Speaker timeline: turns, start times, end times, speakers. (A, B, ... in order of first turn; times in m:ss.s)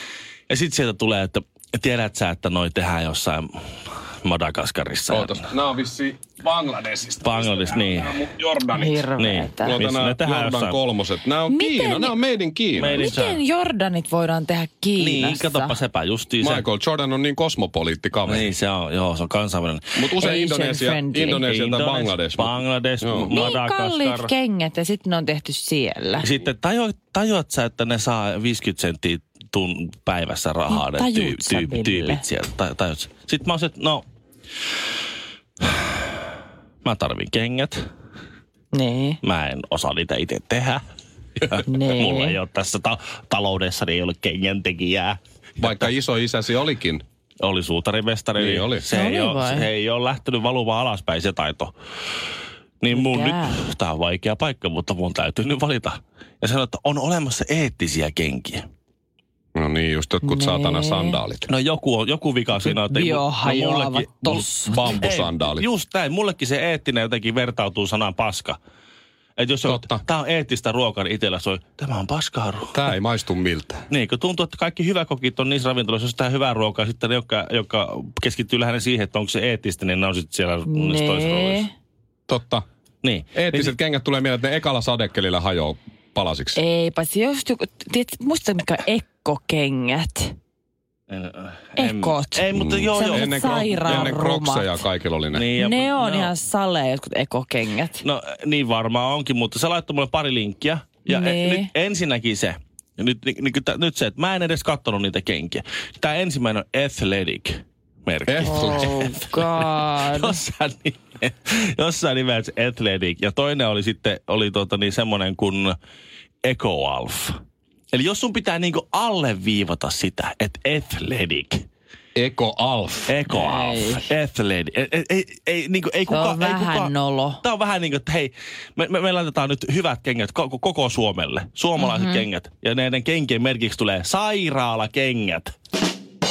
0:00.5-0:05.5 A
0:05.1-0:09.0 B
0:07.2-0:08.2 A
0:08.7-0:09.8 C
0:09.2-0:10.8 A
0:09.6-0:13.1 B
0:11.5-0:12.2 C
0:12.8-0:13.4 A
0:12.9-0:15.7 C
0:15.0-0:16.6 A
0:16.4-0:18.5 B
0:18.3-0:20.0 A
0:20.0-0:23.4 B
0:20.2-0:21.4 C
0:21.4-0:24.3 A
0:23.3-0:26.3 C
0:26.2-0:34.0 A
0:30.7-0:32.2 C
0:35.6-0:36.1 A
0:36.8-0:37.8 A
0:38.7-0:39.2 C
0:39.2-0:40.8 A
0:41.4-0:45.9 A
0:41.6-0:42.4 C
0:45.6-0:47.0 B
0:47.4-0:51.7 A
0:48.4-0:48.8 B
0:48.9-0:49.7 C
0:52.8-0:58.6 A
0:52.9-0:53.6 C
0:59.5-1:01.4 B
1:00.2-1:01.2 C
1:01.5-1:08.6 A
1:02.6-1:04.9 C
1:04.4-1:05.7 B
1:09.4-1:12.7 A
1:09.7-1:10.0 B
1:12.7-1:13.8 B
1:13.9-1:21.7 A
1:20.7-1:21.7 C
1:22.3-1:22.6 B
1:23.0-1:23.8 A
1:23.3-1:26.6 B
1:26.5-1:30.3 C
1:31.1-1:34.2 A
1:31.8-1:34.7 C
1:32.5-1:35.4 B
1:35.3-1:36.3 A
1:35.6-1:38.0 C
1:38.0-1:55.7 A
1:41.1-1:41.7 C
1:48.2-1:49.1 B
1:48.4-1:50.4 C
1:56.4-1:57.4 A
1:57.9-2:01.6 A
2:02.2-2:03.1 B
2:03.1-2:15.5 A
2:03.3-2:04.1 C
2:06.1-2:07.4 C
2:11.8-2:12.2 C